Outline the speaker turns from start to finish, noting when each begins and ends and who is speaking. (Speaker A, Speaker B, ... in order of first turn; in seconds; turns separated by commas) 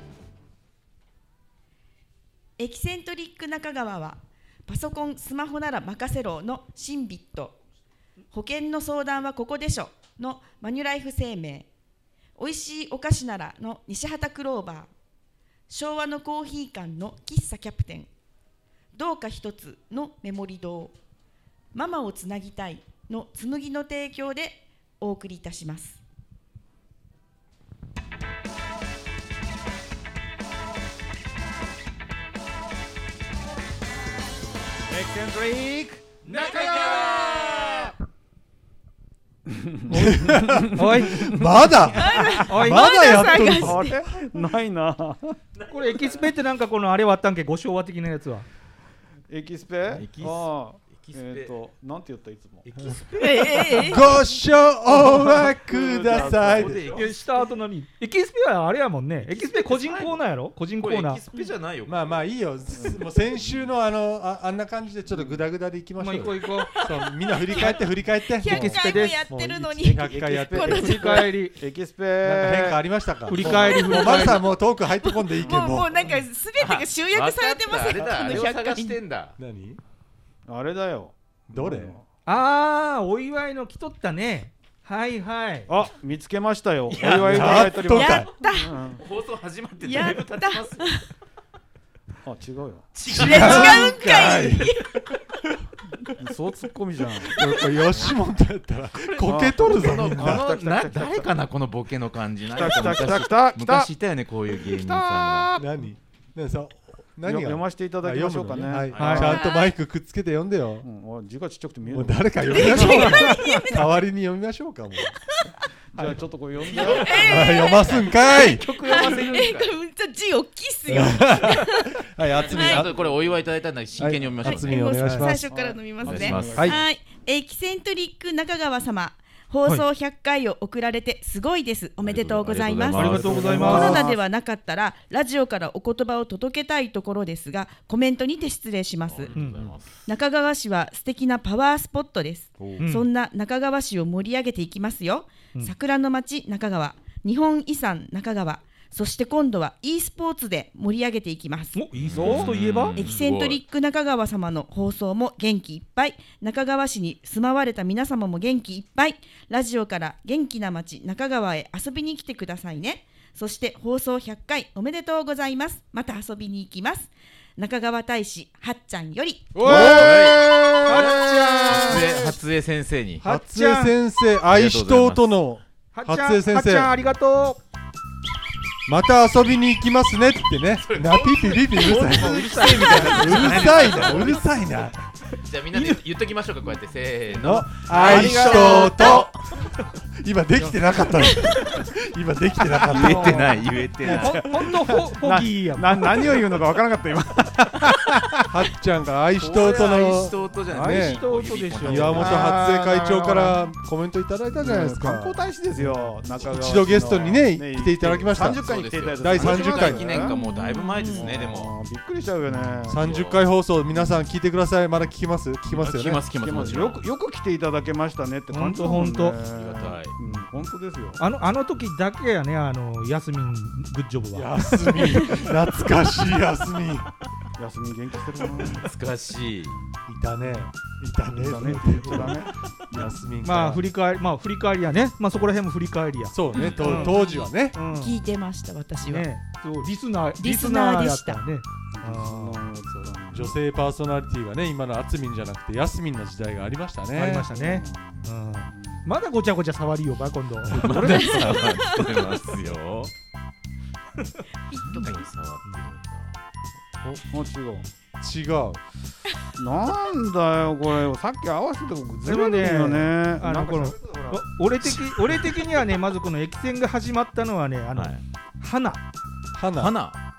Speaker A: 2.6-7.6, Speaker A: 8.3-11.7, Speaker A: 12.3-14.9, Speaker A: 15.7-18.1, Speaker A: 18.9-20.9, Speaker A: 21.7-26.0, Speaker B: 34.9-37.9, Speaker B: 39.5-42.4, Speaker C: 39.9-43.9, Speaker D: 39.9-41.4, Speaker A: 41.9-44.0, Speaker D: 42.5-43.0, Speaker B: 43.2-45.4, Speaker E: 45.6-46.1, Speaker D: 45.7-48.5, Speaker B: 49.3-53.0, Speaker E: 49.9-51.5, Speaker E: 52.6-54.0, Speaker A: 53.1-54.1, Speaker C: 53.8-56.8, Speaker B: 55.0-57.1, Speaker E: 56.1-57.3, Speaker D: 56.9-61.2, Speaker E: 59.3-60.2, Speaker E: 60.8-62.0, Speaker C: 61.9-71.0, Speaker B: 62.8-63.6, Speaker B: 65.1-65.4, Speaker D: 66.0-66.7, Speaker A: 66.7-71.3, Speaker D: 68.5-69.2, Speaker B: 70.0-74.4, Speaker D: 70.7-71.6, Speaker C: 72.2-75.9, Speaker D: 73.3-74.5, Speaker A: 75.0-79.0, Speaker E: 76.6-79.3, Speaker C: 79.4-79.8, Speaker B: 80.5-82.1, Speaker C: 81.5-82.0, Speaker D: 82.2-85.7, Speaker B: 85.7-89.0, Speaker C: 87.0-88.3, Speaker A: 87.8-88.8, Speaker E: 89.0-91.0, Speaker A: 89.8-91.1, Speaker B: 92.2-92.9, Speaker E: 92.9-93.9, Speaker A: 93.1-94.8, Speaker C: 93.1-95.0, Speaker B: 96.2-97.3, Speaker C: 97.3-100.4, Speaker E: 99.1-105.5, Speaker B: 99.2-101.3, Speaker B: 102.5-103.9, Speaker B: 104.6-105.7, Speaker C: 105.6-110.9, Speaker B: 107.2-109.4, Speaker E: 108.8-109.2, Speaker D: 109.0-109.4, Speaker A: 109.3-109.7, Speaker B: 110.8-113.4, Speaker C: 111.9-115.1, Speaker A: 112.5-113.8, Speaker B: 115.9-117.4, Speaker D: 115.9-116.2, Speaker E: 116.7-119.7, Speaker A: 116.8-122.9, Speaker C: 117.0-118.6, Speaker C: 120.9-122.9, Speaker E: 122.3-124.8, Speaker C: 124.0-125.4, Speaker A: 124.4-139.3, Speaker D: 125.0-125.3, Speaker B: 125.5-126.9, Speaker E: 126.0-126.7, Speaker C: 126.5-126.8, Speaker E: 132.0-133.5, Speaker D: 132.9-134.1, Speaker C: 133.0-134.1, Speaker B: 133.6-134.2, Speaker E: 139.0-140.1, Speaker D: 139.3-139.6, Speaker A: 140.1-152.3, Speaker C: 142.6-142.8, Speaker D: 142.8-143.1, Speaker D: 151.7-153.0, Speaker E: 151.9-153.6, Speaker B: 152.1-152.5, Speaker A: 152.9-169.9, Speaker B: 169.5-172.2, Speaker E: 169.6-173.2, Speaker D: 170.8-172.2, Speaker D: 173.2-173.9, Speaker C: 173.2-176.9, Speaker E: 174.5-175.3, Speaker D: 175.9-177.6, Speaker C: 178.9-185.0, Speaker E: 180.8-184.5, Speaker D: 181.9-184.2, Speaker E: 185.4-189.4, Speaker C: 187.4-189.3, Speaker B: 187.9-189.1, Speaker D: 188.1-188.5, Speaker C: 190.2-193.5, Speaker E: 192.8-194.5, Speaker B: 192.8-198.4, Speaker D: 194.1-196.2, Speaker C: 198.5-201.2, Speaker E: 199.4-202.6, Speaker D: 200.7-202.6, Speaker C: 201.8-208.6, Speaker B: 202.2-203.6, Speaker B: 204.6-210.4, Speaker E: 208.4-211.8, Speaker C: 209.2-210.3, Speaker A: 210.3-211.3, Speaker B: 211.1-213.0, Speaker C: 212.9-216.2, Speaker E: 212.9-213.4, Speaker B: 213.9-214.2, Speaker E: 215.7-217.0, Speaker B: 216.4-221.2, Speaker D: 218.5-219.4, Speaker E: 219.3-220.2, Speaker D: 221.2-225.4, Speaker C: 224.3-227.1, Speaker B: 227.6-228.9, Speaker E: 228.8-229.8, Speaker C: 230.1-233.8, Speaker D: 230.4-230.7, Speaker B: 231.3-233.1, Speaker D: 231.6-232.2, Speaker D: 233.4-237.1, Speaker C: 236.3-237.8, Speaker E: 236.5-237.2, Speaker A: 236.9-239.3, Speaker D: 237.7-238.2, Speaker D: 239.0-242.6, Speaker A: 240.4-241.4, Speaker B: 241.9-243.6, Speaker C: 243.3-247.5, Speaker D: 247.1-251.6, Speaker B: 247.5-249.1, Speaker E: 250.7-253.1, Speaker B: 250.8-251.7, Speaker A: 251.0-252.2, Speaker A: 254.7-255.2, Speaker E: 254.7-256.4, Speaker B: 257.0-257.9, Speaker C: 258.2-258.8, Speaker B: 259.6-264.4, Speaker D: 262.2-269.0, Speaker E: 268.0-268.2, Speaker C: 269.5-269.9, Speaker E: 269.8-270.1